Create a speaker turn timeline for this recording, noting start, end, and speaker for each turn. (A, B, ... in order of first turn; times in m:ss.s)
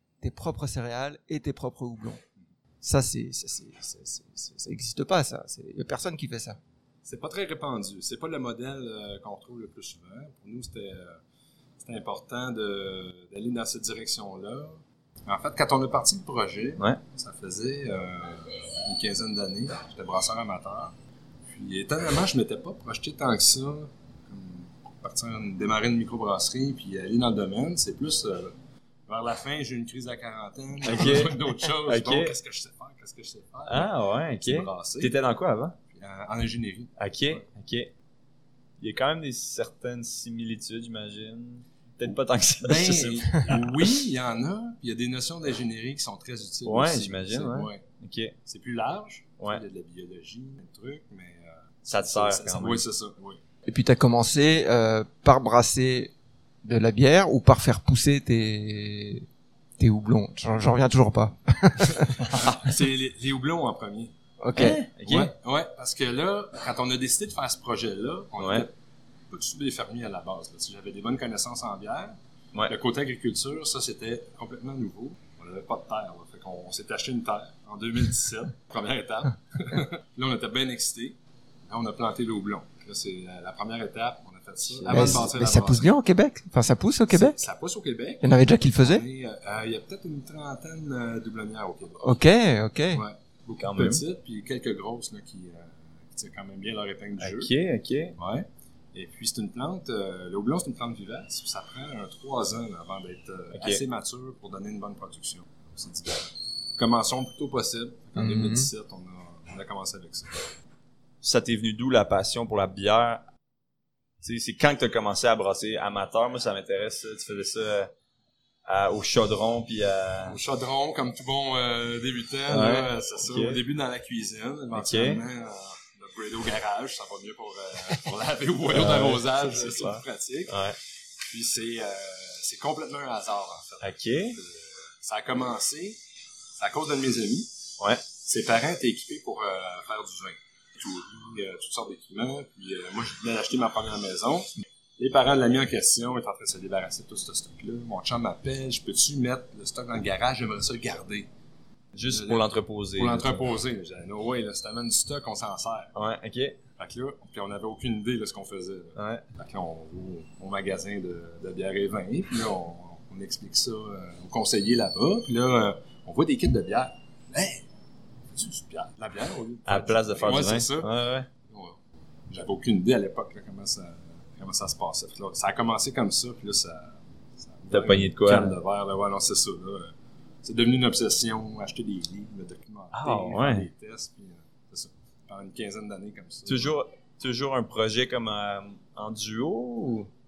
0:00.2-0:02.2 A
0:02.8-0:06.6 A
0:07.0-0:11.2 B
0:11.8-0:21.0 B
0:21.5-0:28.6 B
0:29.1-0:35.2 B
0:30.8-0:32.3 C
0:33.7-0:35.8 C
0:35.9-0:37.5 B
0:37.0-0:37.9 C
0:38.8-0:43.9 C
0:42.6-0:47.8 B
0:46.6-0:48.4 C
0:48.4-0:53.4 B
0:51.9-0:52.9 C
0:53.7-0:59.3 A
0:59.8-1:02.4 A
1:02.3-1:04.1 B
1:04.4-1:04.8 A
1:04.6-1:05.3 C
1:05.0-1:08.7 B
1:08.4-1:08.6 C
1:09.3-1:12.2 B
1:12.7-1:21.2 B
1:21.7-1:25.9 B
1:24.7-1:25.2 C
1:24.8-1:27.4 A
1:27.1-1:32.1 B
1:28.2-1:29.0 A
1:32.0-1:33.0 A
1:32.9-1:37.5 B
1:33.6-1:34.0 C
1:37.2-1:38.2 C
1:38.2-1:50.4 B
1:43.5-1:43.8 C
1:48.2-1:48.7 A
1:51.2-1:53.2 C
1:54.2-1:57.9 C
1:58.7-2:00.4 C
2:00.2-2:10.6 B
2:02.5-2:03.6 C
2:04.7-2:05.2 C
2:08.7-2:10.8 C
2:11.2-2:16.0 B
2:13.8-2:14.4 C
2:16.6-2:17.5 B
2:18.2-2:31.3 B
2:31.9-2:33.5 C
2:32.1-2:35.9 B
2:36.0-2:36.6 C
2:36.8-2:47.6 B
2:39.0-2:39.2 C
2:48.3-2:51.8 B
2:49.7-2:51.3 C
2:52.3-2:59.9 B
2:57.7-2:58.5 C
3:00.4-3:06.8 B
3:02.9-3:03.7 C
3:06.5-3:10.1 C